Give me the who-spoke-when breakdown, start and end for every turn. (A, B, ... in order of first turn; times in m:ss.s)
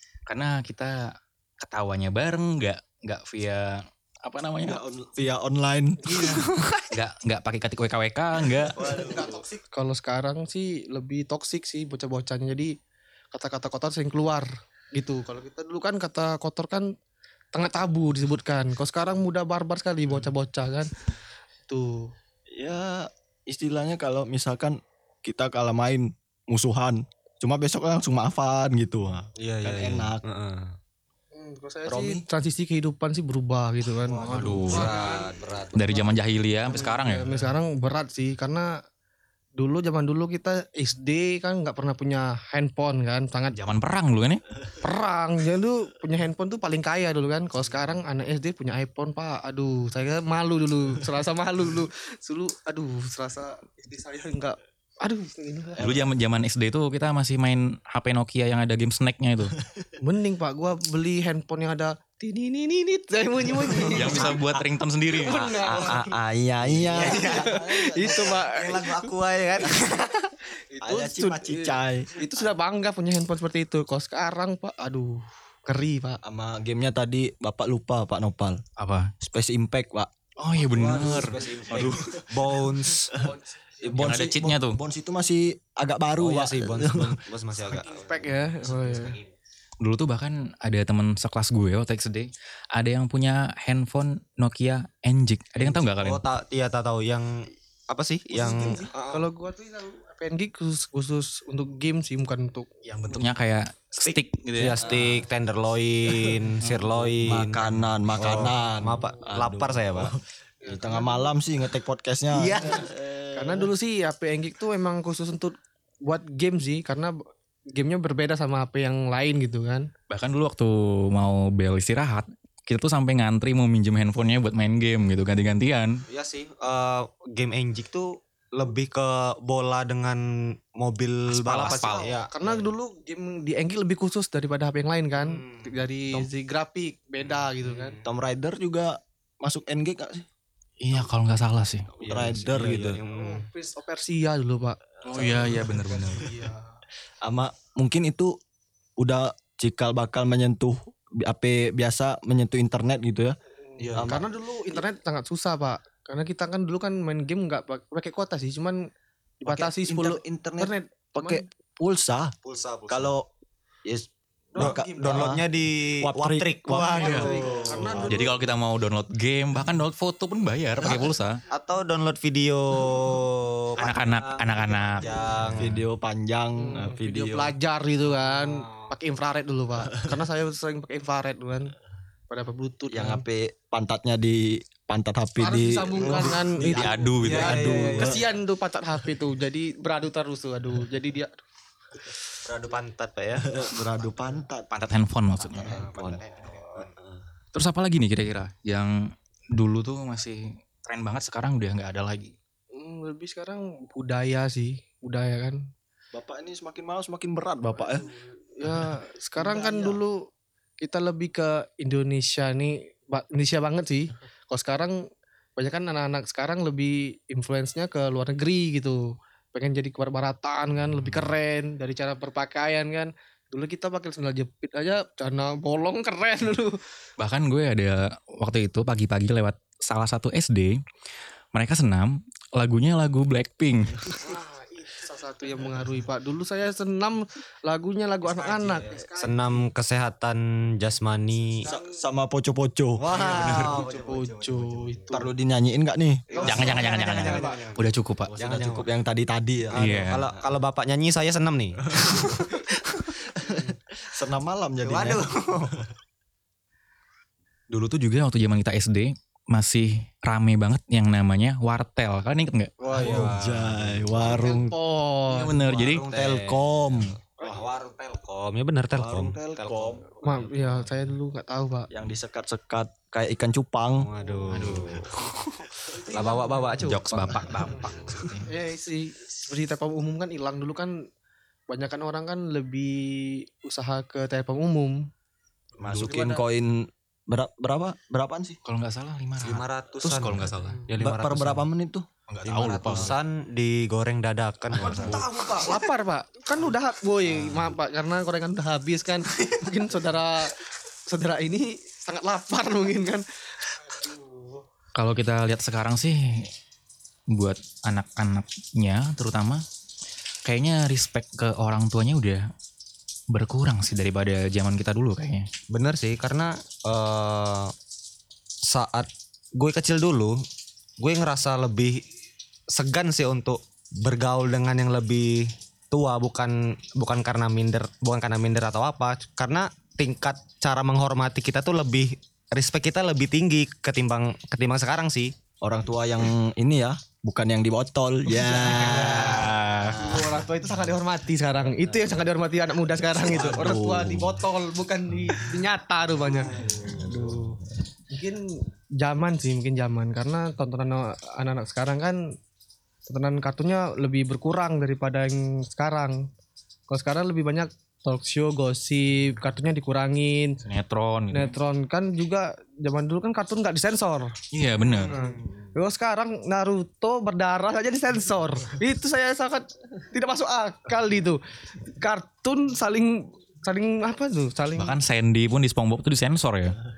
0:00.3-0:04.8 A
0:04.6-0:06.4 B
0:06.0-0:06.4 C
0:06.9-0:08.8 A
0:08.8-0:09.4 B
0:08.8-0:09.4 D
0:08.9-0:12.7 C
0:13.3-0:16.9 C
0:17.5-0:20.9 C
0:21.7-0:22.1 C
0:22.5-0:30.2 B
0:29.4-0:30.8 D
0:31.3-0:35.3 C
0:31.8-0:32.2 B
0:34.1-0:36.2 D
0:34.1-0:34.8 B
0:34.3-0:35.0 A
0:35.7-0:37.3 A
0:36.6-0:38.8 C
0:39.6-0:43.6 C
0:43.5-0:44.4 A
0:44.8-0:55.8 C
0:55.8-0:56.1 B
0:55.8-0:59.5 A
1:00.0-1:04.4 C
1:03.9-1:05.5 A
1:05.1-1:06.1 C
1:05.5-1:06.0 D
1:05.6-1:08.4 B
1:06.6-1:10.3 D
1:07.0-1:09.1 C
1:10.7-1:16.2 C
1:10.8-1:12.1 B
1:12.2-1:12.5 D
1:16.2-1:18.6 B
1:18.8-1:19.1 A
1:19.2-1:23.3 B
1:20.4-1:22.0 A
1:20.8-1:23.1 D
1:23.1-1:23.9 C
1:23.8-1:27.2 B
1:23.9-1:24.8 A
1:26.2-1:29.3 D
1:27.6-1:29.2 C
1:29.8-1:36.2 A
1:35.6-1:39.3 D
1:38.4-1:38.8 B
1:38.5-1:42.7 C
1:42.8-1:45.1 A
1:44.0-1:50.1 D
1:46.6-1:47.0 A
1:47.2-1:53.7 B
1:50.6-1:51.3 C
1:52.3-1:57.1 C
1:57.7-1:59.9 C
2:00.1-2:06.0 A
2:06.1-2:12.7 D
2:11.3-2:12.1 A
2:11.7-2:18.0 C
2:15.1-2:16.2 D
2:17.2-2:18.1 D
2:18.0-2:20.3 B
2:20.8-2:21.9 A
2:21.9-2:23.5 D
2:22.0-2:23.0 B
2:23.1-2:26.6 C
2:25.0-2:26.3 A
2:27.2-2:28.4 B
2:29.0-2:33.4 B
2:33.8-2:38.9 C
2:33.8-2:34.3 D
2:33.9-2:34.2 B
2:39.4-2:41.4 C
2:39.4-2:42.3 B
2:42.4-2:43.2 D
2:42.9-2:43.3 B
2:43.8-2:45.4 B
2:44.5-2:45.3 C
2:44.6-2:48.3 D
2:46.0-2:48.2 B
2:46.9-2:48.3 C
2:47.0-2:47.3 A
2:48.0-2:51.4 A
2:51.5-2:55.8 D
2:53.8-2:55.1 A
2:55.5-2:57.5 B
2:56.6-3:01.7 C
2:58.2-2:58.9 D
3:02.3-3:03.2 C
3:02.9-3:08.2 B
3:05.4-3:07.0 C
3:06.0-3:08.3 D
3:06.7-3:07.9 A
3:07.6-3:11.4 C
3:12.4-3:14.3 D
3:13.3-3:14.7 B
3:14.7-3:15.8 A
3:15.5-3:17.2 D
3:15.5-3:16.8 B
3:17.5-3:22.3 A
3:22.7-3:25.7 C
3:26.1-3:28.0 B
3:28.6-3:30.2 C
3:28.6-3:30.0 B
3:30.8-3:35.0 C
3:35.6-3:46.8 C
3:47.2-3:50.8 A
3:51.5-3:54.0 A
3:54.1-3:59.6 C
3:58.2-4:01.7 D
4:01.6-4:03.6 B
4:01.7-4:02.0 C
4:03.0-4:05.1 D
4:03.2-4:05.3 C
4:03.3-4:03.8 A
4:05.1-4:06.9 B
4:06.3-4:08.9 D
4:06.3-4:07.7 C
4:06.4-4:08.3 A
4:08.3-4:10.4 B
4:09.7-4:13.7 D
4:09.7-4:10.2 A
4:11.9-4:12.4 B
4:13.3-4:15.8 B
4:14.8-4:15.8 D
4:17.7-4:22.7 A
4:22.8-4:24.5 D
4:22.9-4:24.7 B
4:24.2-4:25.5 C
4:25.3-4:26.0 A
4:25.6-4:30.8 D
4:26.0-4:27.6 B
4:28.9-4:30.2 B
4:30.2-4:31.9 C
4:31.9-4:34.1 B
4:34.0-4:35.3 D
4:34.5-4:35.1 A
4:35.8-4:38.3 D
4:35.8-4:36.8 C
4:36.8-4:38.5 A
4:38.4-4:41.1 C
4:41.7-4:45.1 C
4:45.8-4:48.6 B
4:45.8-4:46.4 D
4:48.6-4:50.9 A
4:49.4-4:51.6 D
4:50.9-4:52.1 B
4:52.3-4:53.1 A
4:52.4-4:55.3 D
4:54.8-5:04.6 C
5:04.9-5:06.5 A
5:07.3-5:09.6 A
5:10.4-5:12.4 A
5:13.3-5:15.5 A
5:15.7-5:17.7 D
5:18.7-5:20.4 D
5:21.0-5:22.0 D
5:22.7-5:35.3 D
5:35.6-5:39.6 B
5:38.4-5:47.6 C
5:38.8-5:40.2 A
5:39.1-5:40.0 D
5:43.2-5:44.4 B
5:46.5-5:47.4 B
5:48.1-5:52.4 C
5:53.0-5:56.3 C
5:56.9-6:00.6 C
6:00.6-6:01.5 A
6:01.3-6:04.4 C
6:04.5-6:05.1 A
6:04.9-6:15.0 C
6:14.8-6:16.8 A